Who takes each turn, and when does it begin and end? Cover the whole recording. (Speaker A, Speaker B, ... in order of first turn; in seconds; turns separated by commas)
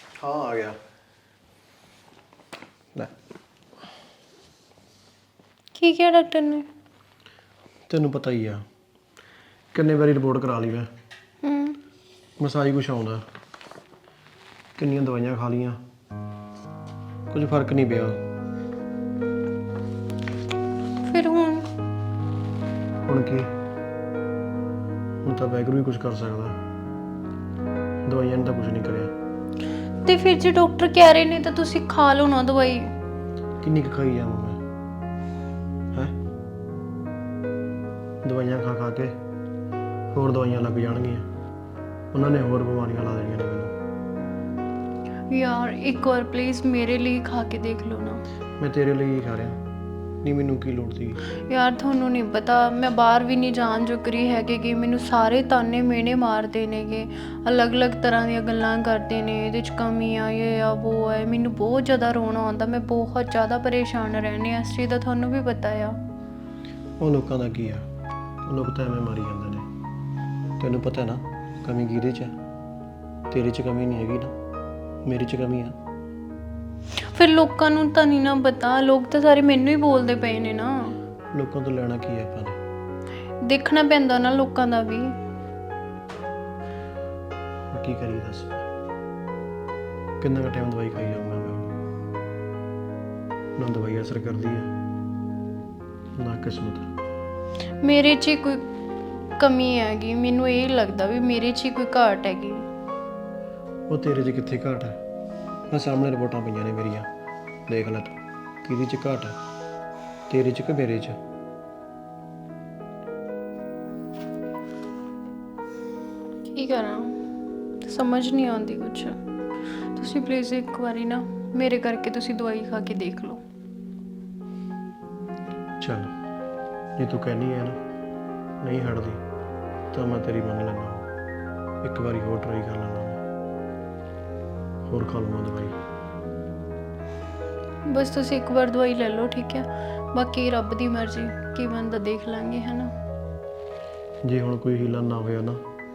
Speaker A: 0.2-0.8, Speaker B: 5.8-6.7, Speaker A: 7.9-8.6, Speaker A: 9.7-10.9, Speaker B: 11.4-11.8, Speaker A: 12.4-13.2, Speaker A: 14.8-15.8, Speaker A: 17.3-18.2, Speaker B: 21.0-21.7, Speaker A: 23.1-23.5, Speaker A: 25.2-26.6, Speaker A: 28.0-29.1, Speaker B: 30.0-32.9, Speaker A: 33.6-34.6, Speaker A: 38.2-39.2, Speaker A: 40.1-41.2, Speaker A: 42.1-43.7, Speaker B: 45.3-48.2, Speaker A: 48.6-49.6, Speaker A: 50.2-51.2, Speaker B: 51.5-66.0, Speaker A: 67.0-67.8, Speaker A: 68.5-69.7, Speaker A: 70.6-72.3, Speaker A: 73.3-74.3, Speaker A: 75.0-75.8, Speaker B: 77.1-81.0, Speaker A: 81.3-82.6, Speaker B: 83.4-85.2, Speaker A: 87.7-88.7, Speaker A: 90.2-91.7, Speaker A: 93.6-94.7, Speaker A: 96.2-96.9, Speaker B: 97.8-98.6, Speaker B: 99.4-102.7, Speaker A: 103.9-105.0, Speaker A: 105.7-107.1, Speaker A: 107.7-109.4, Speaker A: 110.3-111.2, Speaker B: 116.5-117.2, Speaker B: 117.8-119.2, Speaker B: 120.0-123.4, Speaker A: 125.8-126.1, Speaker A: 127.0-127.8, Speaker A: 128.6-129.2, Speaker A: 129.9-131.1, Speaker A: 131.8-133.2, Speaker A: 134.9-135.8, Speaker B: 137.9-142.9, Speaker A: 144.2-145.6